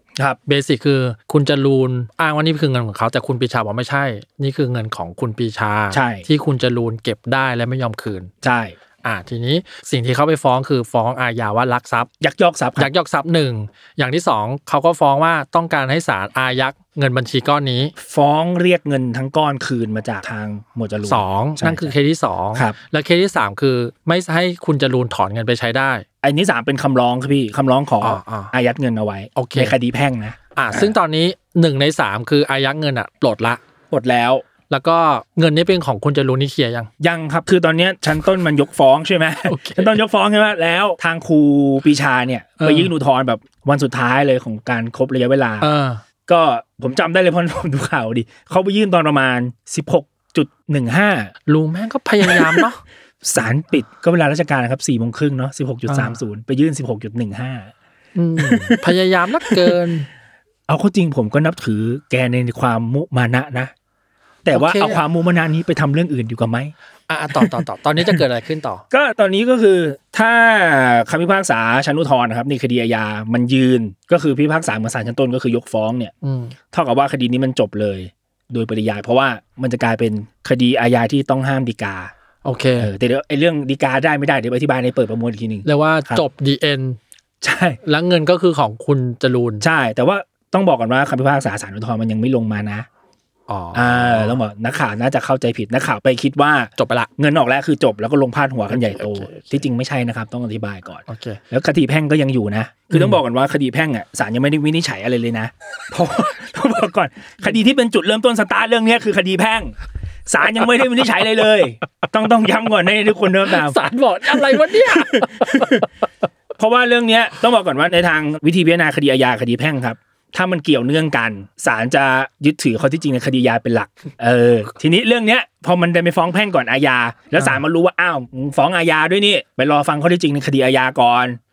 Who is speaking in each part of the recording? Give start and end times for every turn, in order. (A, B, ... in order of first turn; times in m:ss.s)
0:00.5-0:08.3 A
0:05.9-0:06.3 B
0:08.4-0:08.8 B
0:09.0-0:12.1 A
0:12.2-0:12.9 B
0:12.8-0:17.9 A
0:18.0-0:22.0 B
0:21.0-0:26.0 A
0:26.2-0:31.0 B
0:28.0-0:28.5 A
0:29.4-0:29.8 A
0:30.6-0:33.6 A
0:33.9-0:34.5 B
0:34.7-0:36.9 A
0:37.0-0:45.7 B
0:39.5-0:40.0 A
0:42.6-0:42.9 A
0:45.6-0:46.0 A
0:46.3-0:51.3 B
0:51.5-0:52.8 A
0:52.2-0:52.7 B
0:53.2-0:57.7 B
0:55.9-0:56.2 A
0:58.2-1:00.1 A
0:58.4-0:58.8 B
0:59.5-0:59.8 B
1:00.7-1:03.7 B
1:04.4-1:06.7 B
1:04.5-1:05.0 A
1:07.1-1:08.8 A
1:07.4-1:08.2 B
1:08.9-1:16.1 B
1:16.2-1:16.6 A
1:16.7-1:22.1 B
1:22.4-1:22.9 A
1:22.8-1:26.2 B
1:25.6-1:27.0 A
1:27.4-1:27.8 B
1:27.8-1:29.7 A
1:29.6-1:32.9 B
1:33.5-1:34.4 A
1:33.7-1:55.9 B
1:36.8-1:37.1 A
1:38.7-1:39.6 A
1:41.1-1:41.4 A
1:42.9-1:43.2 A
1:53.4-1:55.9 A
1:56.6-2:11.4 B